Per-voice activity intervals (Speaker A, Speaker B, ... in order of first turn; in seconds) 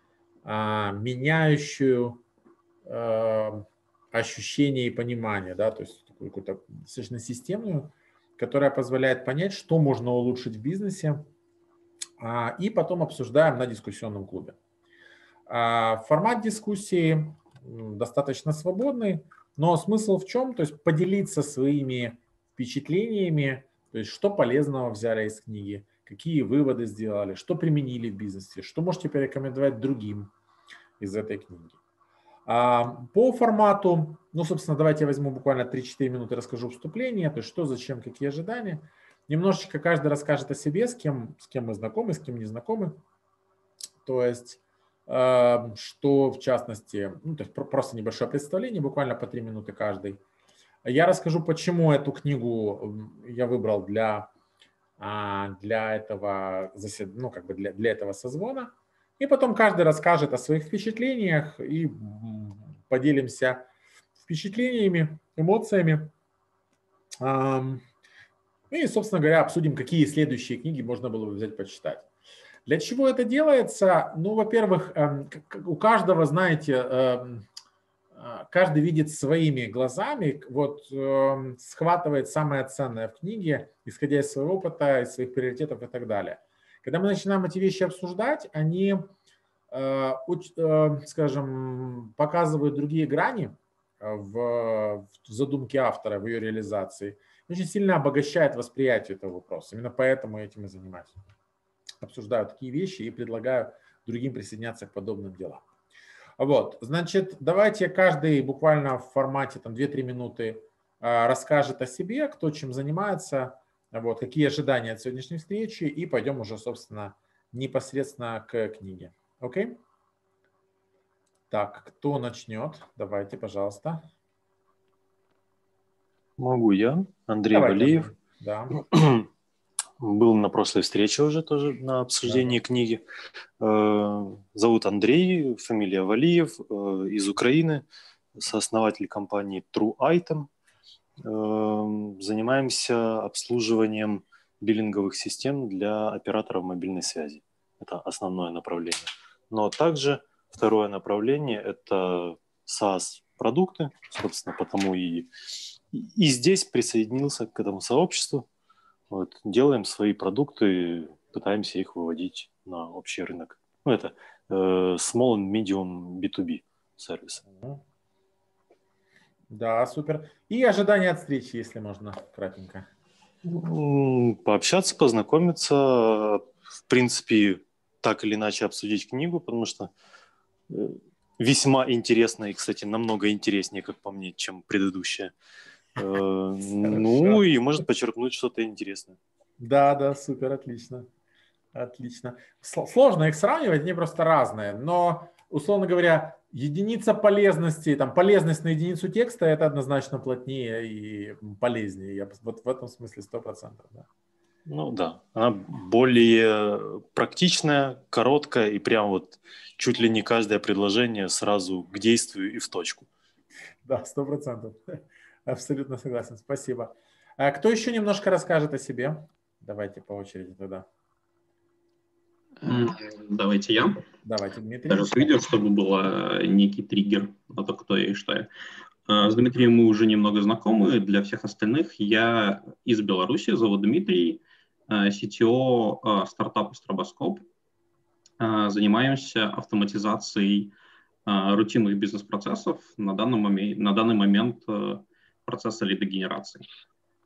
Speaker A: 0.5-2.2, 2.9-11.3, 12.2-14.6, 15.5-30.3, 31.0-31.8, 32.5-43.0, 44.0-50.2, 50.8-54.3, 55.0-63.7, 64.2-66.1, 67.2-67.8, 68.7-72.1, 72.7-77.5, 78.2-89.1, 89.7-101.2, 102.0-105.6, 106.4-119.8, 121.5-124.1, 127.5-128.8, 132.2-132.6, 167.5-167.8, 169.5-172.9, 186.8-187.4, 189.6-191.1, 191.7-204.1, 213.9-220.9, 224.2-225.4
Speaker B: 126.4-128.1, 128.8-129.3, 130.0-133.0, 133.6-137.8, 138.4-140.5, 141.2-155.3, 155.9-158.5, 159.1-167.4, 173.4-179.9, 180.7-185.3, 186.0-189.2, 204.7-213.1
Speaker C: 222.6-224.1, 224.9-228.5, 229.1-237.4, 238.4-240.7, 241.3-246.7